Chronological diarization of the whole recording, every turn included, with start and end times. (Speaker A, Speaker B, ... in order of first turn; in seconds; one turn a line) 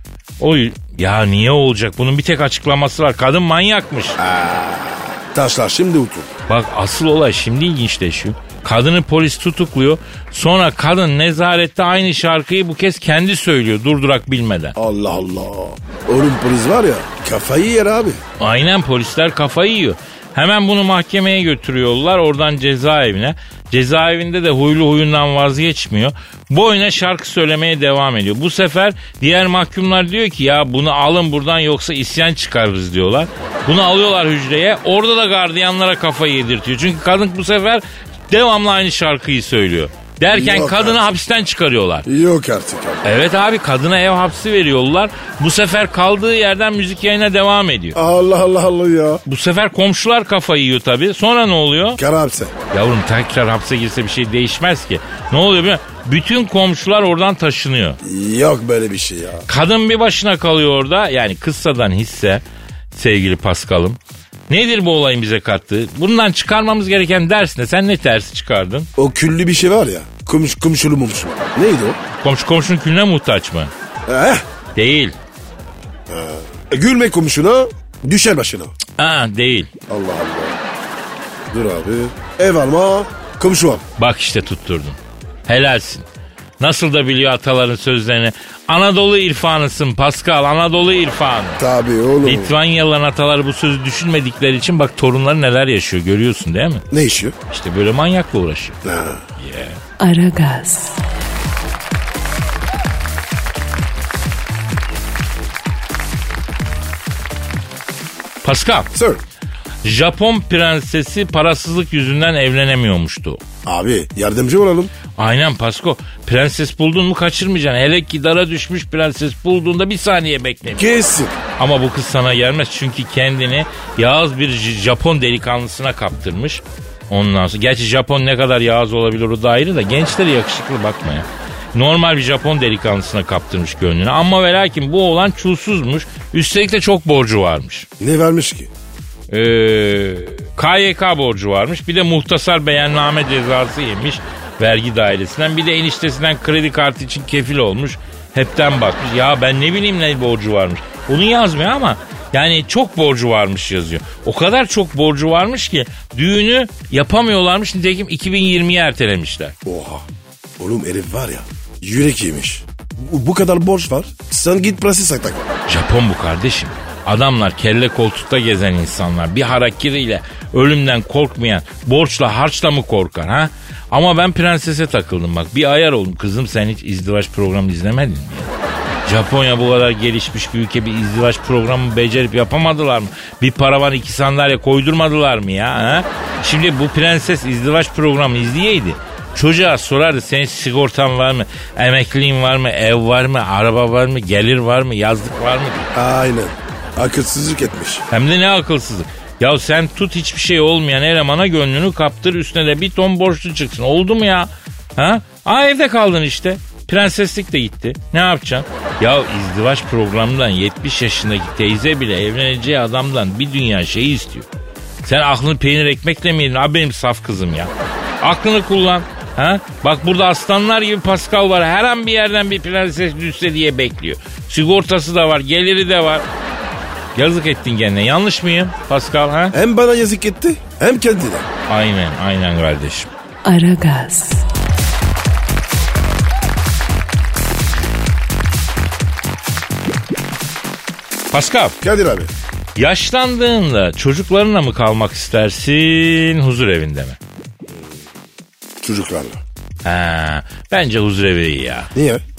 Speaker A: 0.4-4.2
Speaker B: 4.2-6.3
Speaker A: 6.5-14.7
Speaker B: 14.8-18.2
Speaker A: 18.4-42.0
Speaker B: 40.3-41.0
Speaker B: 42.0-43.1
Speaker A: 43.0-48.0
Speaker B: 47.9-49.2
Speaker A: 49.2-52.0
Speaker B: 52.0-52.5
Speaker A: 52.7-58.0
Speaker B: 58.0-59.5
Speaker A: 59.5-64.0
Speaker A: 64.5-68.9
Speaker B: 69.0-72.0
Speaker A: 72.2-73.7
Speaker B: 74.1-74.4
Speaker A: 74.8-75.1
Speaker B: 76.1-78.7
Speaker A: 79.0-79.7
Speaker B: 79.9-80.6
Speaker B: 81.5-83.8
Speaker A: 84.0-86.0
Speaker A: 86.6-91.6
Speaker B: 91.6-92.5
Speaker A: 92.2-96.8
Speaker B: 96.9-97.3
Speaker A: 97.5-98.8
Speaker B: 98.8-99.2
Speaker A: 99.4-99.8
Speaker C: 100.0-101.0
Speaker A: 108.4-108.9
Speaker B: 108.9-109.2
Speaker A: 109.8-113.4
Speaker B: 113.6-114.9
Speaker A: 115.2-121.0
Speaker B: 120.8-121.3
Speaker A: 121.6-137.9
Speaker B: 138.0-138.7
Speaker A: 139.3-159.5
Speaker B: 159.6-160.0
Speaker B: 160.6-165.5
Speaker A: 165.7-178.5
Speaker A: 179.1-195.9
Speaker B: 195.9-198.0
Speaker A: 198.1-214.5
Speaker A: 215.0-226.2
Speaker A: 227.1-229.5
Speaker B: 229.5-231.5
Speaker A: 231.7-233.1
Speaker C: 233.4-234.4
Speaker A: 241.3-241.8
Speaker B: 241.8-242.3
Speaker A: 242.8-247.2
Speaker B: 247.7-248.0
Speaker B: 248.8-249.4
Speaker A: 249.8-251.9
Speaker B: 251.9-252.2